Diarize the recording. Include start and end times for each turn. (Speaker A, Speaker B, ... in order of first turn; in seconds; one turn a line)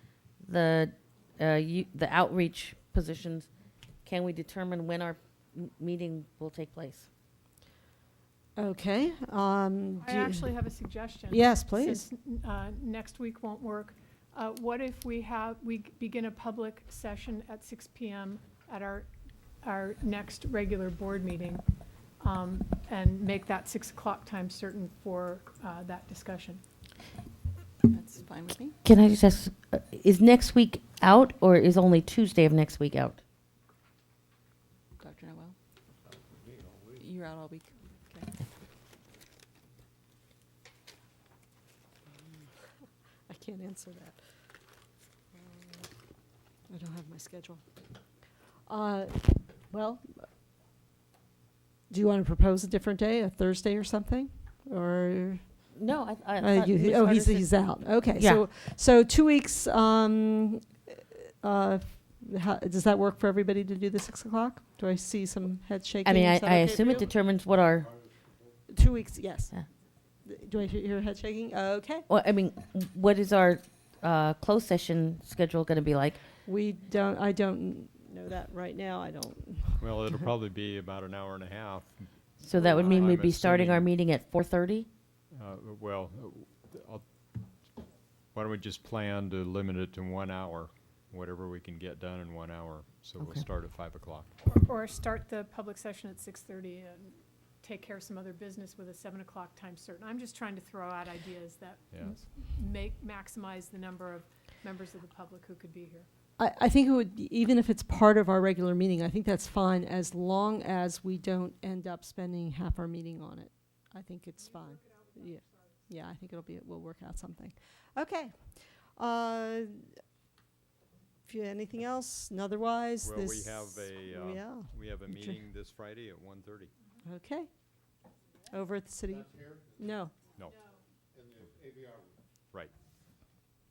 Speaker A: 0.4-3.5
Speaker A: 4.0-7.1
Speaker B: 8.6-10.5
Speaker C: 10.0-19.1
Speaker B: 11.3-12.1
Speaker C: 19.6-21.6
Speaker C: 22.2-26.6
Speaker D: 27.9-28.8
Speaker A: 28.8-33.2
Speaker D: 35.0-35.6
Speaker E: 36.4-37.0
Speaker D: 37.0-38.3
Speaker B: 43.3-44.2
Speaker B: 45.4-45.9
Speaker B: 46.7-47.6
Speaker B: 48.7-50.3
Speaker B: 51.9-55.7
Speaker A: 55.7-58.4
Speaker B: 56.4-67.1
Speaker A: 66.0-67.9
Speaker B: 68.7-69.5
Speaker B: 70.2-72.0
Speaker A: 72.1-76.2
Speaker B: 76.5-80.1
Speaker F: 79.8-83.9
Speaker A: 82.4-84.9
Speaker F: 85.3-87.0
Speaker F: 88.3-94.3
Speaker A: 93.2-93.5
Speaker C: 94.4-106.1
Speaker F: 101.9-102.2
Speaker B: 106.4-119.9
Speaker B: 121.3-125.4
Speaker F: 123.0-126.7
Speaker B: 127.0-127.5
Speaker B: 128.5-130.1
Speaker E: 129.1-129.9
Speaker E: 131.1-132.2